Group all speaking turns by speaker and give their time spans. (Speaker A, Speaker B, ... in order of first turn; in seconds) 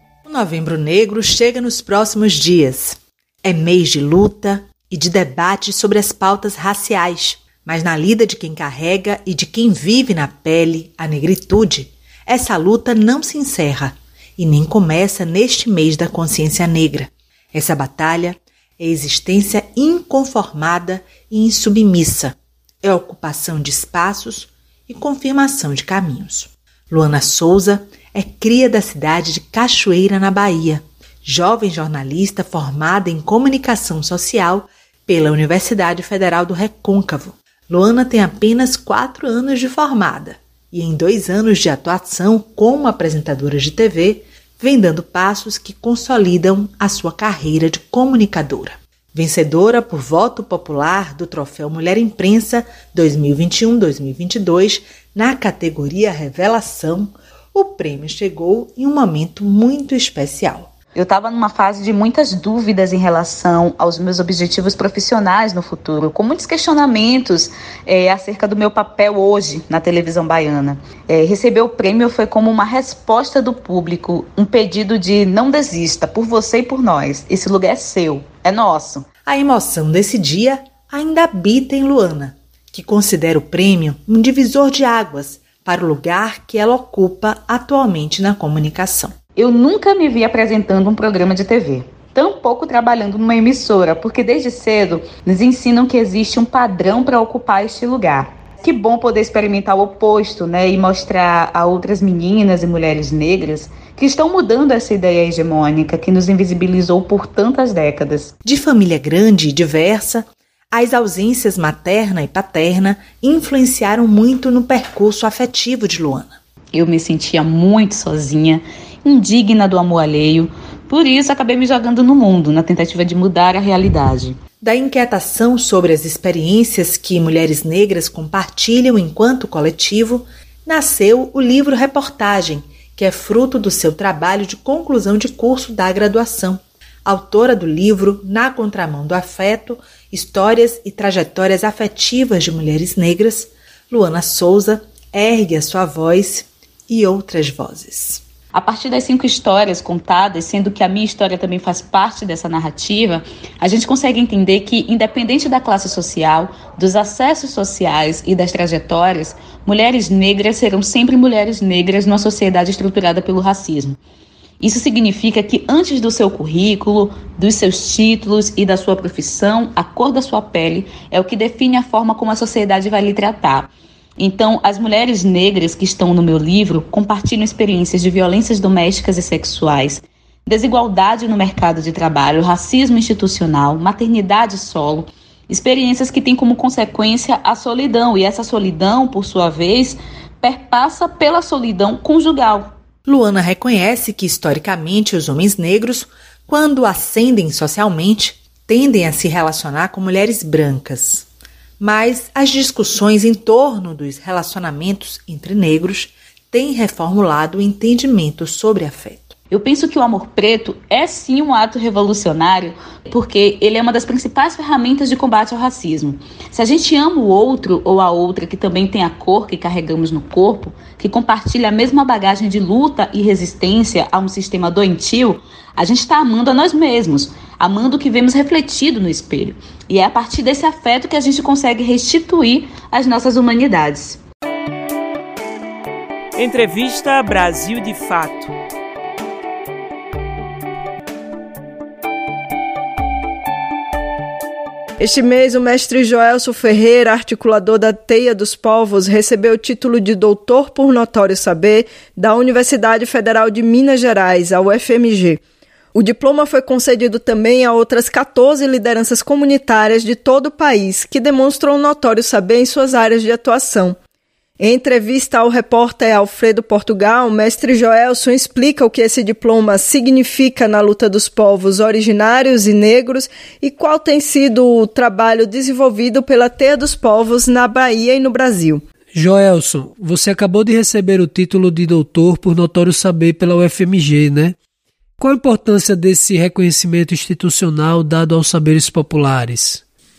Speaker A: 0.2-60.7, 79.2-89.2, 108.4-116.4, 124.6-148.2, 193.1-201.2, 201.8-209.3
Speaker B: 60.9-79.0, 89.3-108.3, 116.7-124.4, 148.5-164.0, 164.6-192.8, 209.5-234.2
Speaker C: 236.4-238.5
Speaker D: 245.0-255.4, 255.9-263.9, 264.6-278.8
Speaker E: 279.1-284.6, 285.2-289.8